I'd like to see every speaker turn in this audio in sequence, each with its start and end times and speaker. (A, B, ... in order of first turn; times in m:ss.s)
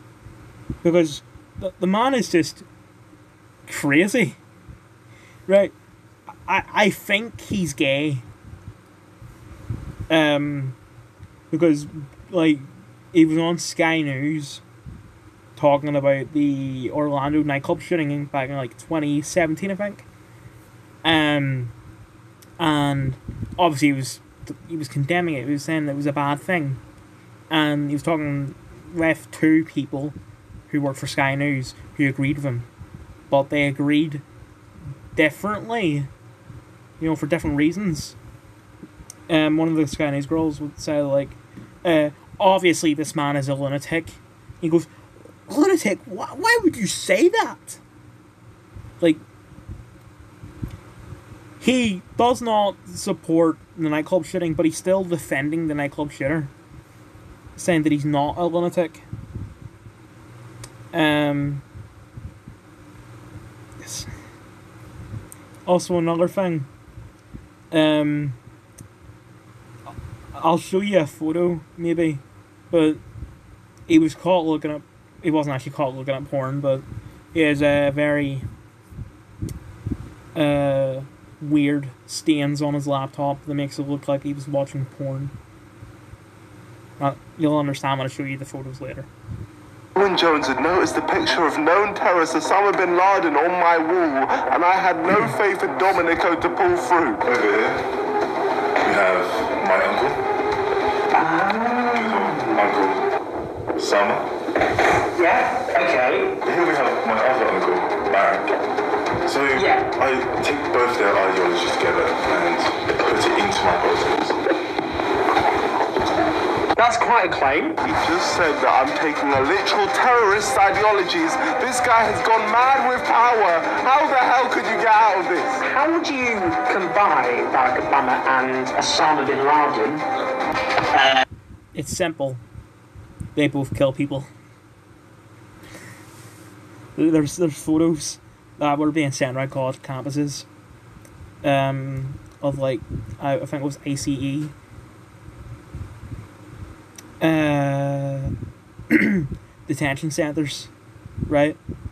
0:00.8-0:02.6 A
0:03.7-0:04.4 A
0:05.5-0:05.7 A
0:06.4-0:08.3 A
0:10.1-0:10.8 A
0:11.5-0:14.6 A
0:15.6-0:20.1 A
0:21.0-0:21.7 A
0:22.6-0:26.8 A
0:27.5-0:30.2 A
0:30.7-0:32.7 A
0:33.3-0:34.2 A
0:35.2-0:36.1 A
0:37.0-0:38.2 A
0:39.3-0:44.9 A
0:45.5-0:47.8 A
0:51.6-0:56.5 A
0:57.6-0:59.0 A
1:00.9-1:01.6 A
1:03.8-1:04.1 A
1:05.7-1:06.7 A
1:07.7-1:08.4 A
1:10.4-1:13.0 A
1:13.9-1:18.5 A
1:20.4-1:25.4 A
1:27.0-1:29.1 A
1:30.0-1:37.2 B
1:37.2-1:37.9 C
1:38.8-1:40.2 C
1:41.1-1:42.5 D
1:41.9-1:43.1 C
1:43.8-1:44.3 C
1:45.2-1:46.4 D
1:46.4-1:48.5 C
1:49.2-1:54.4 C
1:49.6-1:49.8 D
1:56.8-1:57.8 D
1:57.8-2:05.6 B
2:05.6-2:10.0 D
2:10.9-2:11.2 D
2:11.8-2:12.4 A
2:13.4-2:14.3 A
2:17.0-2:20.5 A
2:21.4-2:24.5 A
2:27.2-2:28.3 A
2:28.9-2:30.7 A
2:31.3-2:31.6 A